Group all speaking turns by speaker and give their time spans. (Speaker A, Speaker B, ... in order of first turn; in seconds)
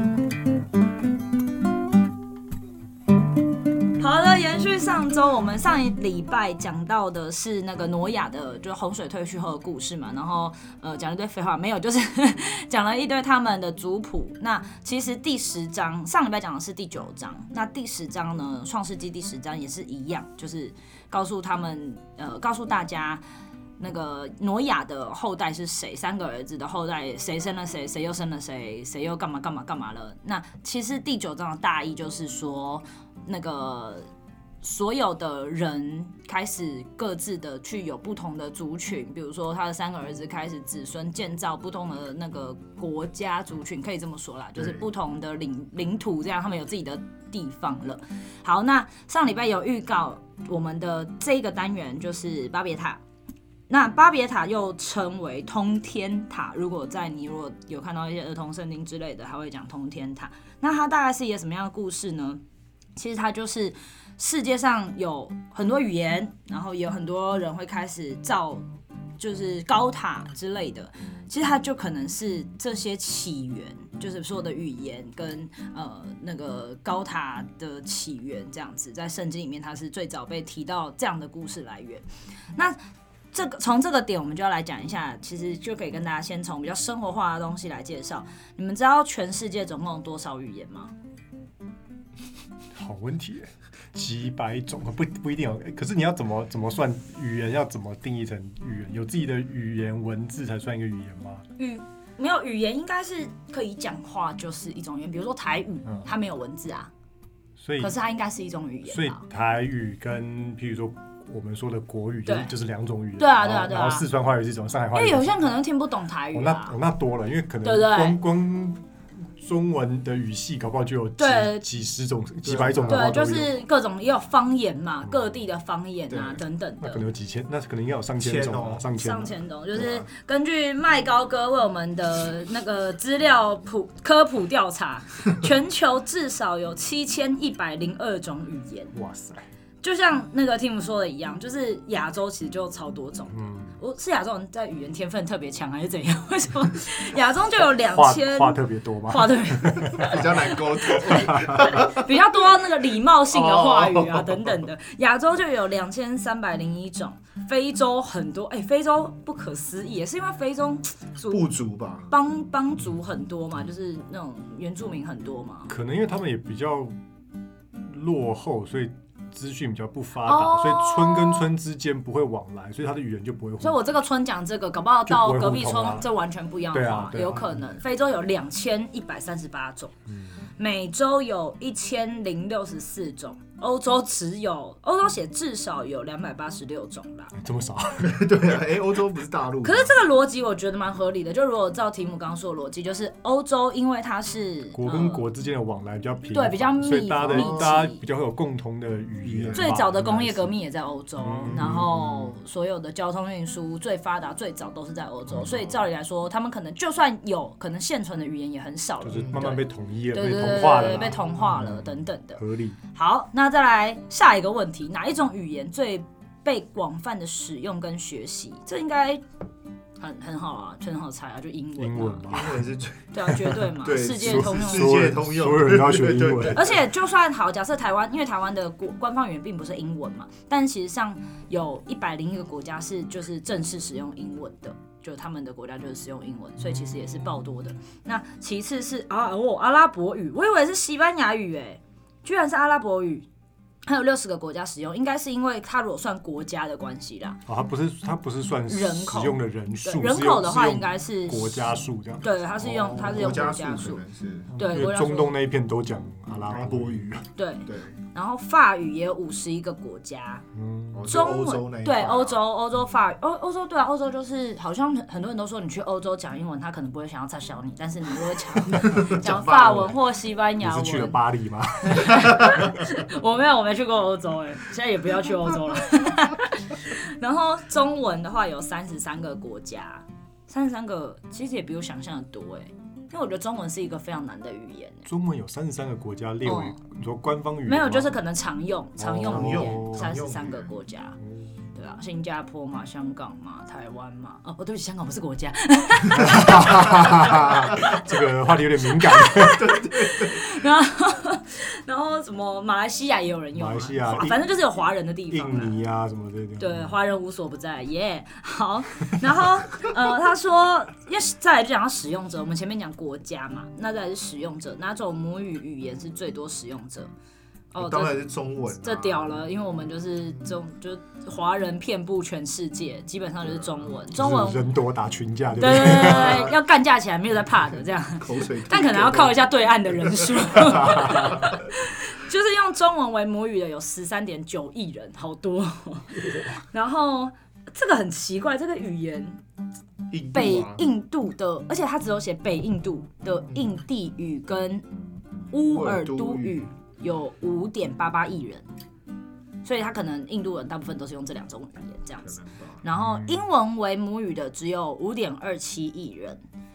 Speaker A: 4.0-23.2, 23.8-34.1, 34.6-53.0, 53.7-62.4, 63.0-68.6, 69.2-82.0, 83.3-90.9, 101.6-106.9, 107.8-109.2, 112.2-112.5, 113.2-114.0, 114.9-116.8, 117.6-118.2, 121.2-121.6, 122.9-127.0, 128.9-138.9, 139.8-161.4, 162.1-165.7, 170.2-171.5, 173.6-179.9, 180.6-187.3, 189.6-195.2, 196.3-198.0, 199.5-219.2, 220.0-222.3, 223.1-224.9, 226.5-243.2, 243.8-247.4, 248.7-251.7, 252.2-254.0, 254.6-255.3, 257.3-260.4, 261.1-271.2, 271.8-285.1, 286.4-286.8, 287.6-291.2, 291.7-298.1, 298.9-305.8, 306.6-317.1, 317.7-318.2, 318.8-324.7, 325.6-339.4, 340.3-344.8, 345.5-348.6, 349.6-356.4
Speaker B: 44.5-44.8, 122.4-123.1, 126.1-126.4, 128.2-128.8, 129.7-130.1, 149.9-152.1, 153.3-154.6, 161.3-162.1, 188.0-189.9, 197.2-197.8, 199.2-199.7, 209.2-209.4, 222.3-226.7, 252.8-254.5, 256.4-257.1, 257.7-257.9, 260.9-262.4, 268.8-269.9, 289.1-290.7, 299.6-300.5, 317.8-319.5, 326.1-326.5, 328.2-331.5, 340.1-340.8, 345.6-346.7, 352.2-352.8
Speaker C: 92.7-101.4, 107.6-107.9, 108.9-115.4, 116.3-123.5, 126.8-129.3, 138.9-139.4, 143.3-143.7, 147.8-150.2, 150.9-151.8, 165.7-166.9, 167.8-173.8, 175.1-176.1, 176.7-177.5, 180.1-180.4, 187.3-188.3, 194.7-200.5, 201.2-202.3, 209.0-212.8, 221.8-222.7, 223.3-226.7, 247.5-253.4, 254.5-257.2, 260.5-261.1, 270.6-272.8, 285.1-288.2, 289.0-290.1, 291.2-291.6, 296.1-299.7, 303.5-304.4, 305.3-306.9, 324.1-326.5, 353.0-353.4